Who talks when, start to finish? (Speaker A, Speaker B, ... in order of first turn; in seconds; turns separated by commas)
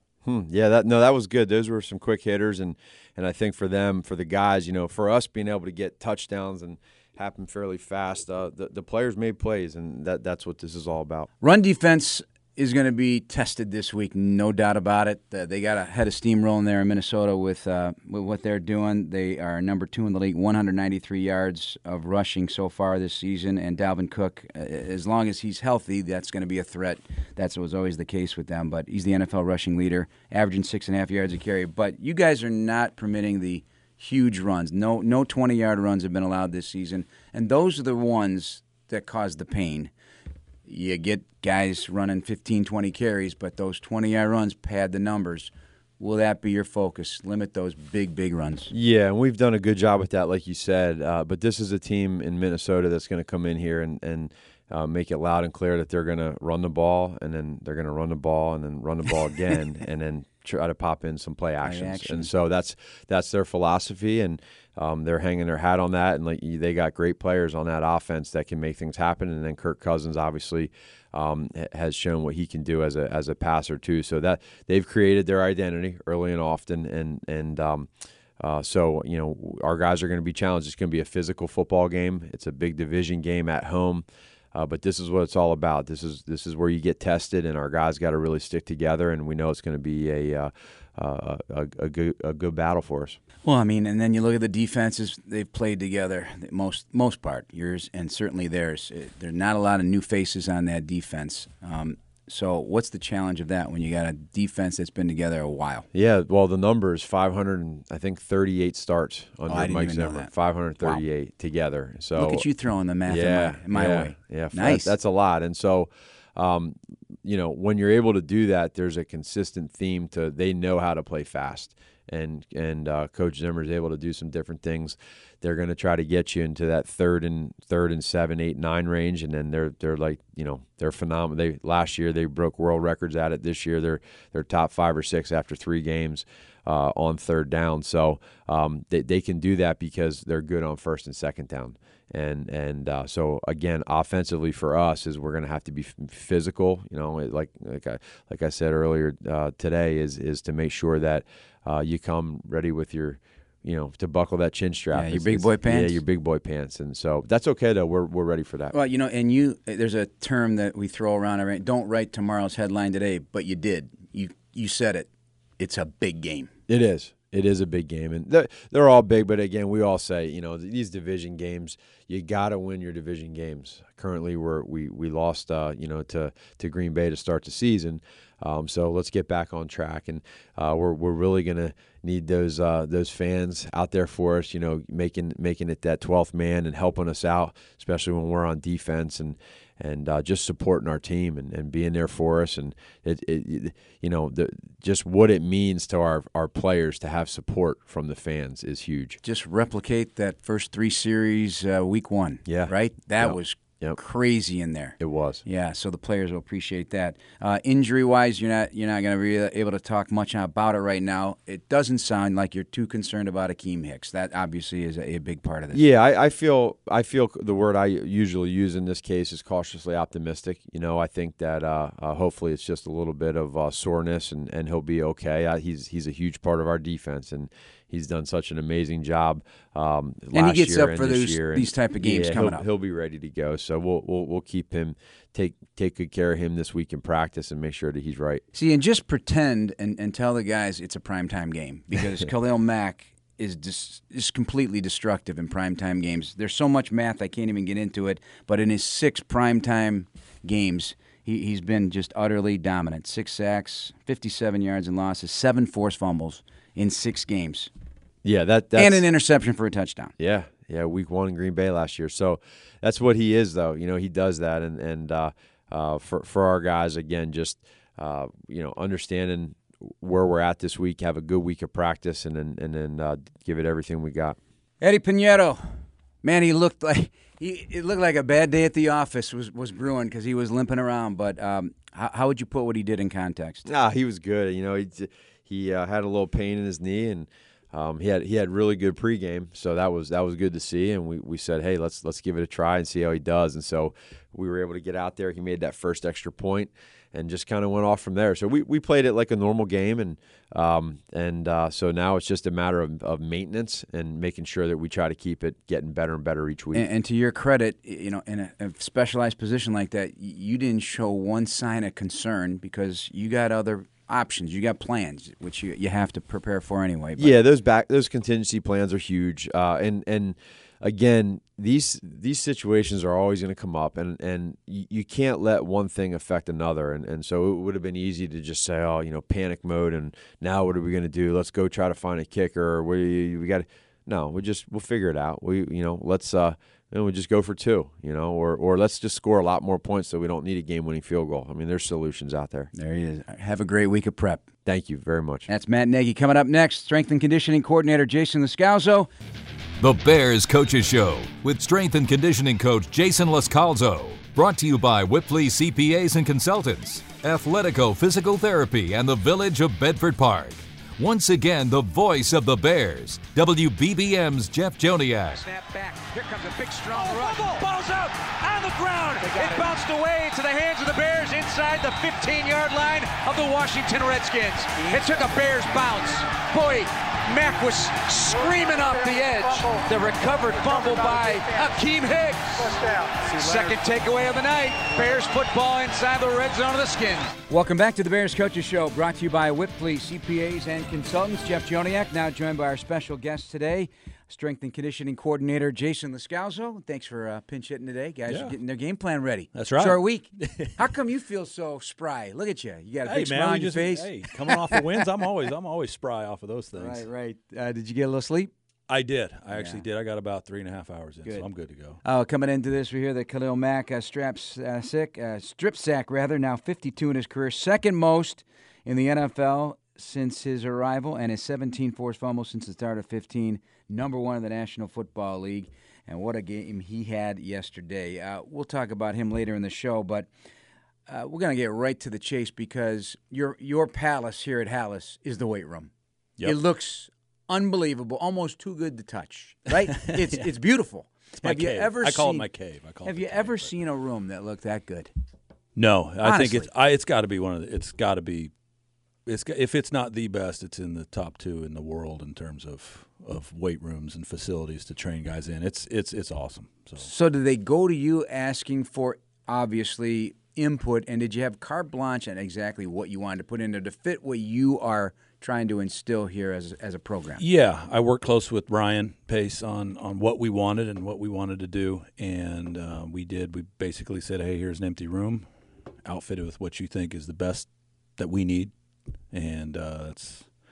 Speaker A: 0.2-11.3, Speaker B: 11.4-39.9, Speaker B: 40.7-48.7, Speaker A: 48.7-93.2, Speaker B: 61.6-62.3, Speaker B: 93.4-105.9, Speaker A: 105.9-112.5, Speaker B: 109.5-110.3, Speaker B: 112.2-114.9, Speaker A: 113.1-158.7, Speaker B: 154.9-156.0, Speaker B: 158.7-166.5, Speaker A: 166.7-199.2, Speaker B: 199.2-215.8, Speaker A: 202.5-204.0, Speaker A: 205.0-205.4, Speaker A: 215.7-238.4, Speaker B: 230.3-232.6, Speaker B: 238.5-257.7, Speaker A: 258.2-259.1, Speaker B: 258.8-260.1, Speaker A: 260.2-274.4, Speaker B: 274.8-275.7, Speaker B: 276.2-283.7, Speaker A: 283.7-306.9, Speaker B: 306.7-317.4, Speaker A: 317.2-342.7, Speaker B: 342.7-344.5, Speaker A: 344.7-345.5, Speaker B: 345.5-349.1, Speaker C: 349.8-365.4, Speaker B: 365.3-382.7, Speaker D: 378.3-381.8, Speaker D: 382.5-383.7, Speaker B: 383.2-405.2, Speaker E: 398.3-398.6, Speaker E: 399.5-400.8, Speaker E: 403.1-407.1, Speaker B: 406.8-408.5, Speaker E: 408.9-412.0, Speaker B: 409.5-409.8, Speaker B: 412.0-430.3, Speaker B: 431.1-435.9, Speaker B: 436.4-442.5, Speaker E: 439.9-440.5, Speaker E: 441.4-443.7, Speaker B: 443.0-445.1, Speaker E: 445.8-448.5, Speaker B: 446.2-446.7, Speaker E: 449.3-457.1, Speaker B: 457.0-467.4, Speaker E: 467.4-475.5, Speaker E: 476.1-478.7, Speaker E: 479.3-480.5